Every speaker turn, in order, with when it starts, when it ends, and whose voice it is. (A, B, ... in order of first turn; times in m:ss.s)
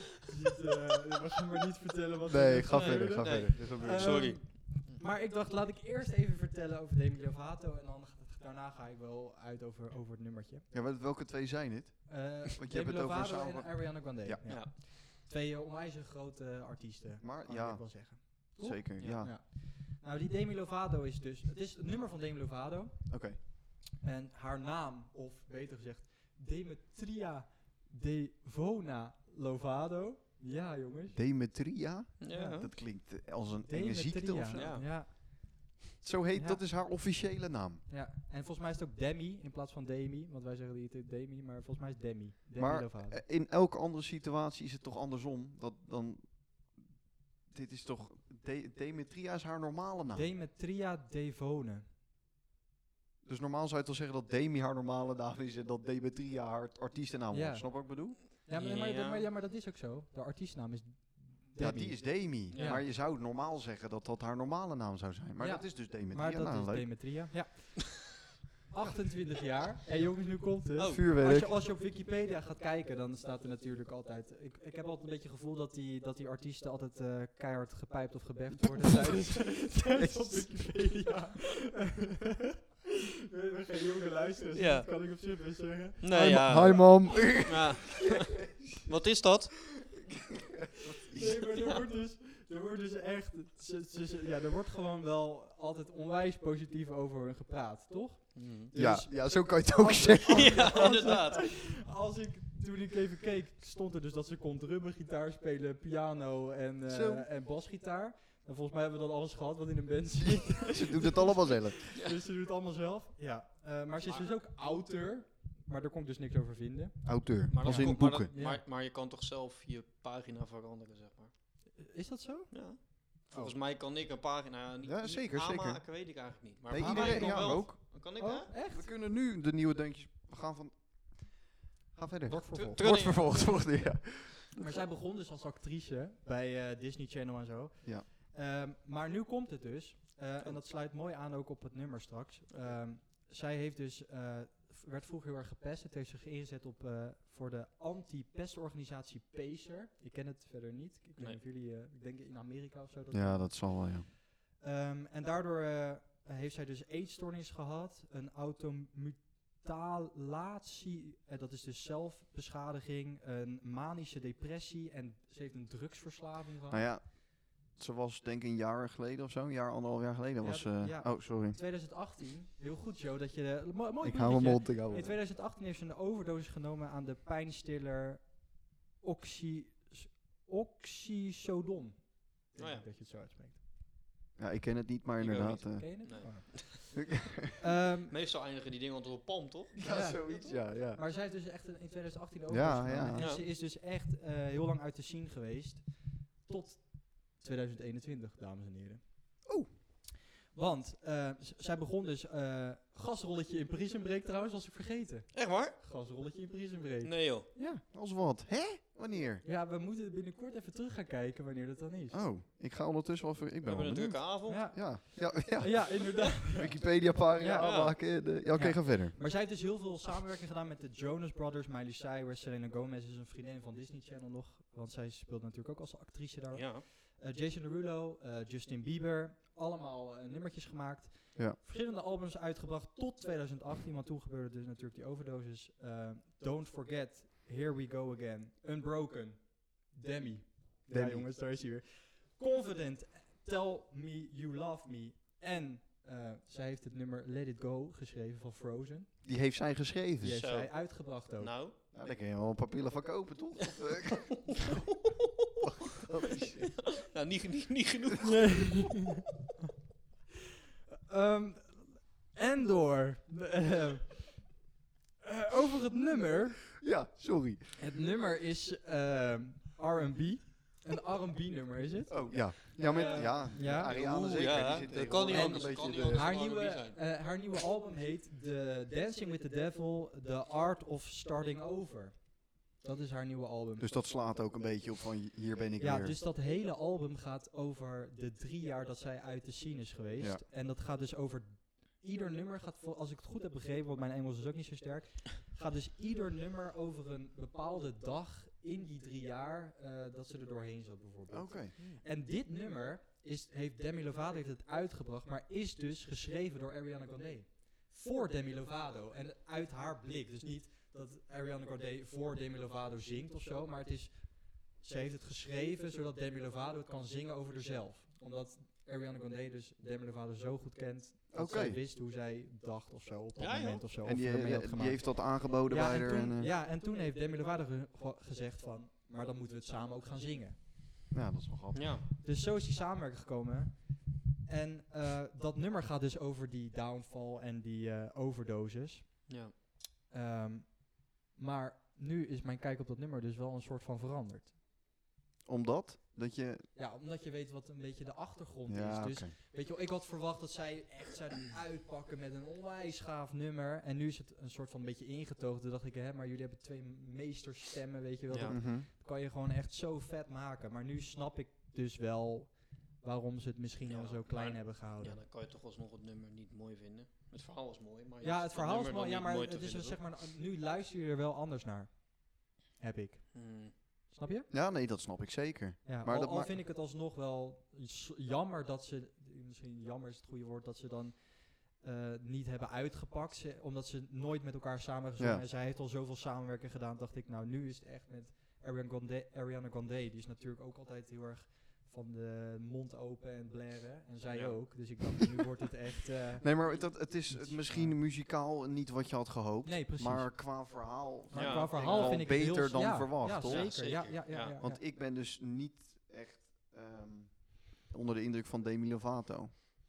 0:00.2-0:10.7 A
0:02.3-0:04.4 B
0:02.9-0:05.0 C
0:10.7-0:14.4 B
0:12.1-0:31.2 A
0:14.5-0:14.7 C
0:17.2-0:19.4 B
0:19.0-0:19.3 C
0:23.1-0:23.4 B
0:31.1-0:34.8 B
0:32.2-0:32.7 C
0:32.3-0:33.0 A
0:33.7-0:35.7 A
0:34.5-0:34.9 C
0:36.0-0:37.8 B
0:36.3-0:36.6 A
0:37.9-0:43.2 A
0:42.6-0:46.9 B
0:47.5-0:50.3 B
0:50.1-0:51.9 A
0:53.2-0:58.2 B
0:57.3-1:02.9 A
0:58.5-0:59.3 C
1:01.6-1:07.3 B
1:02.5-1:02.8 C
1:05.4-1:22.4 A
1:10.8-1:11.0 C
1:10.9-1:11.5 B
1:19.2-1:20.6 B
1:23.3-1:27.3 A
1:24.6-1:25.1 C
1:26.0-1:29.9 C
1:26.1-1:28.7 B
1:30.5-1:31.5 B
1:31.1-1:58.6 A
1:38.4-1:38.7 C
1:38.7-1:41.2 B
1:40.3-1:41.5 C
1:46.9-1:47.3 B
1:50.2-1:51.8 B
1:57.0-1:58.3 B
1:57.5-2:01.3 C
2:01.8-2:03.6 A
2:02.5-2:08.5 C
2:04.8-2:07.8 B
2:06.8-2:08.9 A
2:08.5-2:14.5 B
2:12.3-2:13.0 A
2:12.5-2:13.8 C
2:14.6-2:46.9 A
2:33.1-2:34.1 B
2:46.7-2:51.6 B
2:50.4-3:03.6 A
2:54.0-2:55.2 B
3:02.6-3:02.9 C
3:04.4-3:07.6 B
3:05.2-3:06.9 C
3:05.8-3:07.0 A
3:07.6-3:08.1 A
3:08.1-3:09.8 C
3:09.8-3:11.0 B
3:09.8-3:19.5 A
3:12.5-3:13.3 B
3:13.2-3:13.4 C
3:20.5-3:27.8 A
3:25.3-3:25.8 C
3:27.0-3:27.5 C
3:27.8-3:29.4 B
3:29.4-3:32.2 A
3:32.1-3:39.2 B
3:33.6-3:34.7 C
3:34.5-4:09.2 A
3:37.6-3:38.0 C
3:46.5-3:46.9 C
4:00.9-4:01.3 B
4:09.2-4:10.4 B
4:10.2-4:11.6 A
4:10.3-4:11.8 C
4:11.9-4:14.6 B
4:14.3-4:15.5 C
4:15.6-4:17.0 B
4:16.6-4:19.0 C
4:18.2-4:19.2 A
4:21.1-4:24.5 A
4:25.2-4:26.7 A
4:26.8-4:27.8 B
4:27.8-4:34.2 A
4:32.1-4:36.3 B
4:32.9-4:37.0 C
4:35.3-4:43.9 A
4:43.8-4:46.2 B
4:45.8-5:30.6 A
5:01.3-5:01.8 B
5:21.3-5:21.8 B
5:23.4-5:23.8 C
5:24.0-5:26.5 B
5:31.1-5:31.9 B
5:31.7-5:32.0 C
5:32.2-5:39.3 A
5:39.3-5:39.5 C
5:40.1-5:44.5 A
5:45.4-5:46.7 B
5:46.8-6:05.2 A
5:48.7-5:49.4 B
5:58.3-5:58.6 C
5:58.5-5:58.9 B
6:03.9-6:10.0 C
6:08.2-6:14.5 A
6:13.3-6:13.7 C
6:14.5-6:16.6 B
6:15.8-6:38.0 A
6:25.2-6:25.4 B
6:34.3-6:34.9 C
6:36.4-6:49.5 B
6:39.6-6:44.8 A
6:41.3-6:42.6 C
6:43.4-6:44.6 C